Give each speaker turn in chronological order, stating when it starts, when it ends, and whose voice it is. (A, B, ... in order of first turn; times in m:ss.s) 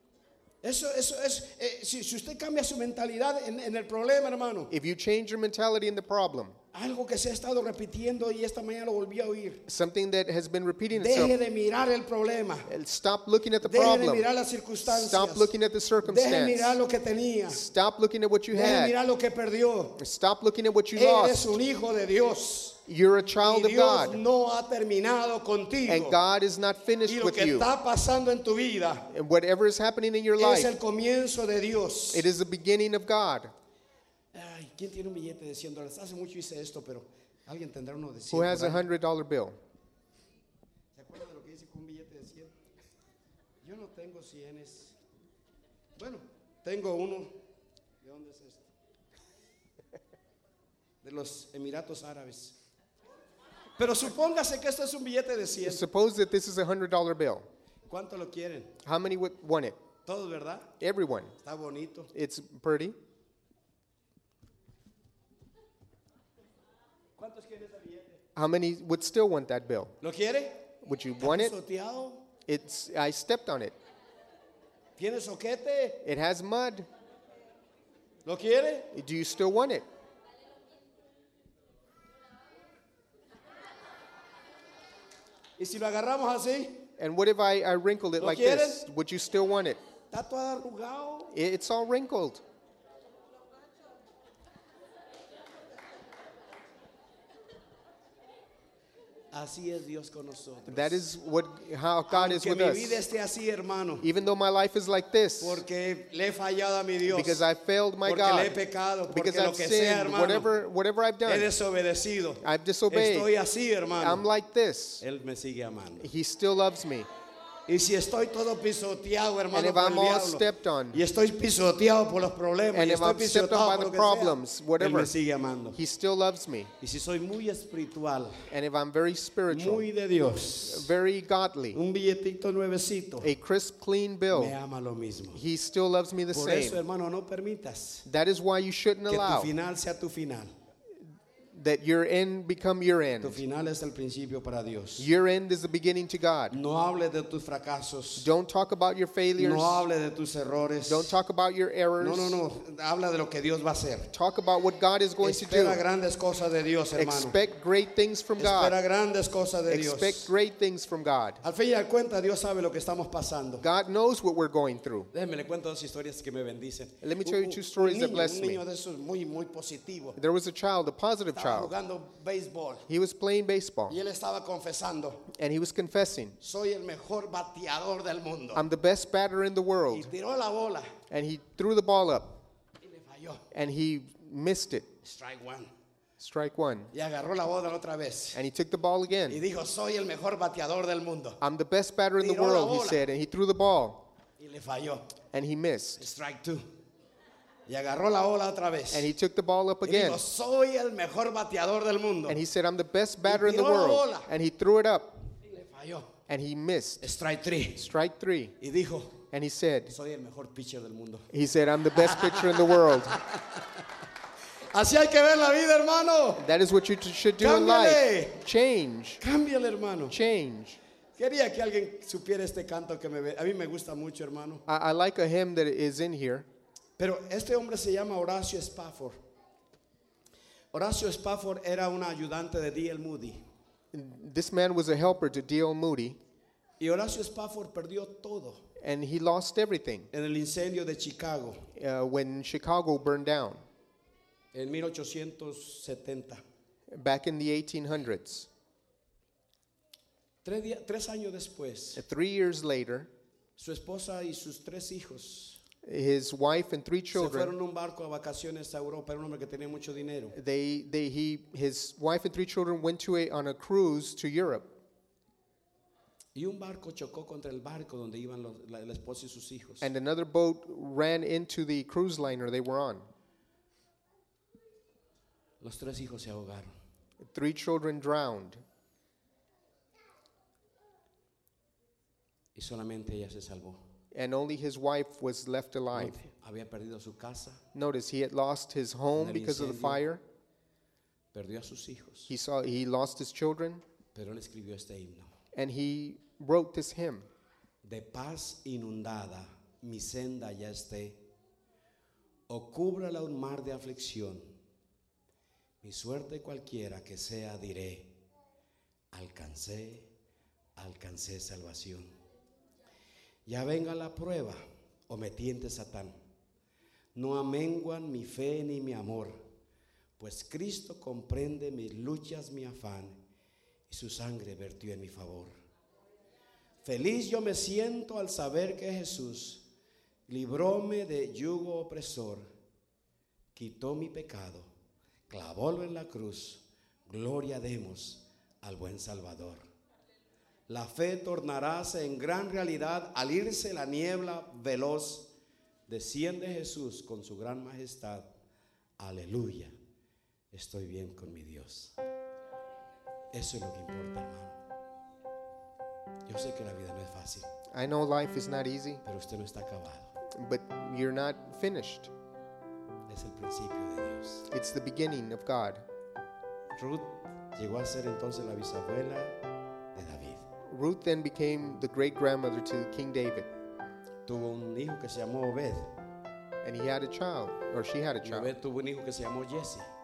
0:00.6-0:04.7 A
0:04.7-0:06.6 B
0:06.7-0:09.6 A
0:09.7-0:11.4 B
0:10.9-0:12.7 A
0:12.7-0:14.3 B
0:13.6-0:15.5 A
0:14.9-0:16.8 B
0:16.0-0:17.6 A
0:17.5-0:19.0 B
0:18.5-0:20.0 A
0:20.0-0:21.6 B
0:21.0-0:22.8 A
0:22.9-0:24.2 B
0:23.4-0:26.2 A
0:25.9-0:27.7 B
0:27.1-0:29.1 A
0:29.1-0:30.8 B
0:30.4-0:32.3 A
0:32.1-0:33.5 B
0:34.3-0:38.9 A
0:38.3-0:39.6 B
0:41.0-0:42.5 A
0:43.6-0:45.0 A
0:46.0-0:47.3 A
0:48.0-0:48.7 A
0:51.0-0:52.6 A
0:53.8-0:55.8 A
0:55.6-0:57.5 B
0:57.9-0:58.8 A
0:58.8-0:59.8 B
1:00.1-1:00.7 A
1:00.8-1:01.3 B
1:01.4-1:02.1 A
1:02.1-1:03.0 B
1:07.2-1:08.2 A
1:08.4-1:10.0 B
1:10.0-1:10.7 A
1:10.8-1:11.6 B
1:11.2-1:12.3 A
1:12.5-1:13.8 B
1:15.0-1:16.0 A
1:16.0-1:16.9 B
1:18.3-1:18.9 A
1:18.9-1:19.8 B
1:25.6-1:26.8 A
1:27.0-1:29.8 B
1:28.2-1:28.8 A
1:30.1-1:31.3 A
1:31.3-1:32.4 B
1:39.3-1:41.1 A
1:40.7-1:43.0 B
1:42.1-1:44.1 A
1:44.0-1:45.6 B
1:45.4-1:47.4 A
1:47.0-1:51.5 B
1:48.0-1:50.5 A
1:51.2-1:54.2 A
1:52.4-1:53.3 B
1:54.0-1:55.0 B
1:55.0-1:56.1 A
1:56.0-1:57.1 B
1:57.7-2:05.8 A
1:59.5-2:01.0 B
2:02.7-2:05.1 B
2:05.7-2:06.7 B
2:06.8-2:08.5 A
2:08.5-2:09.9 B
2:09.5-2:10.9 A
2:10.6-2:11.8 B
2:11.7-2:13.3 A
2:13.2-2:14.6 B
2:14.3-2:15.4 A
2:15.3-2:16.8 B
2:16.3-2:18.1 A
2:18.1-2:19.5 B
2:19.1-2:20.5 A
2:21.5-2:23.4 B
2:23.2-2:25.1 A
2:25.0-2:26.6 B
2:26.5-2:28.3 A
2:28.2-2:29.9 B
2:29.4-2:31.1 A
2:30.9-2:32.4 B
2:32.0-2:34.1 A
2:34.1-2:35.8 B
2:35.2-2:37.4 A
2:37.0-2:38.8 B
2:38.4-2:40.3 A
2:39.7-2:41.4 B
2:41.4-2:43.7 A
2:43.6-2:45.1 B
2:45.1-2:50.2 A
2:47.0-2:48.6 B
2:50.2-2:51.7 B
2:51.4-2:52.9 A
2:52.9-2:54.0 B
2:53.9-2:55.3 A
2:55.3-2:56.4 B
2:56.4-2:58.7 A
2:58.5-3:00.1 B
2:59.9-3:00.9 A
3:01.1-3:02.4 B
3:02.8-3:03.5 A
3:03.5-3:04.9 B
3:05.0-3:05.7 A
3:06.2-3:06.9 B
3:06.9-3:08.4 A
3:08.3-3:09.4 B
3:09.3-3:11.4 A
3:11.4-3:14.1 B
3:12.2-3:13.0 A
3:14.4-3:15.1 A
3:15.3-3:16.0 B
3:16.0-3:16.7 A
3:17.7-3:19.1 A
3:18.9-3:20.2 B
3:19.8-3:22.4 A
3:22.3-3:25.2 B
3:23.2-3:24.3 A
3:25.4-3:26.1 A
3:26.3-3:27.0 B
3:27.0-3:27.9 A
3:27.8-3:28.6 B
3:28.6-3:29.2 A
3:29.3-3:30.0 B
3:29.9-3:31.3 A
3:31.3-3:33.2 B
3:32.0-3:33.8 A
3:34.7-3:36.4 A
3:36.4-3:39.2 B
3:37.4-3:38.4 A
3:39.2-3:40.2 A
3:40.1-3:40.8 B
3:41.2-3:44.6 A
3:44.7-3:46.5 B
3:47.0-3:49.2 A
3:50.7-3:53.4 A
3:53.9-3:56.2 B
3:56.8-3:58.6 A
3:58.8-4:00.1 B
4:00.1-4:01.7 A
4:01.8-4:03.6 B
4:04.5-4:06.4 A
4:06.9-4:08.5 B
4:10.4-4:12.0 A
4:12.0-4:13.1 B
4:13.6-4:15.6 A
4:15.8-4:17.5 B
4:17.1-4:20.4 A
4:20.3-4:24.7 B
4:26.4-4:29.9 A
4:29.8-4:33.1 B
4:35.6-4:36.8 A
4:37.2-4:38.6 B
4:42.6-4:43.8 A
4:44.1-4:46.2 B
4:45.9-4:47.6 A
4:47.7-4:50.2 B
4:49.2-4:50.0 A
4:51.3-4:52.3 A
4:52.3-4:53.8 B
4:54.2-4:55.3 A
4:55.5-4:57.3 B
4:57.8-5:01.2 A
5:02.5-5:04.5 A
5:05.8-5:08.1 A
5:09.1-5:10.1 A
5:10.8-5:12.2 A
5:13.5-5:16.2 A
5:17.2-5:19.5 A
5:20.2-5:23.2 A
5:23.9-5:25.5 A
5:26.8-5:29.7 A
5:30.3-5:32.5 A
5:33.6-5:34.7 A
5:35.3-5:39.7 A
5:40.7-5:45.3 A
5:45.9-5:48.3 A
5:49.0-5:49.8 A
5:50.5-5:51.9 A
5:53.3-5:54.6 A
5:56.3-5:57.5 A
5:57.7-5:59.0 B
5:59.0-6:00.2 A
6:00.3-6:02.1 B
6:03.1-6:04.5 A
6:04.5-6:05.8 B
6:06.8-6:09.4 A
6:09.9-6:10.5 A
6:10.7-6:13.5 B
6:14.3-6:15.9 A
6:16.6-6:18.5 B
6:18.2-6:19.9 A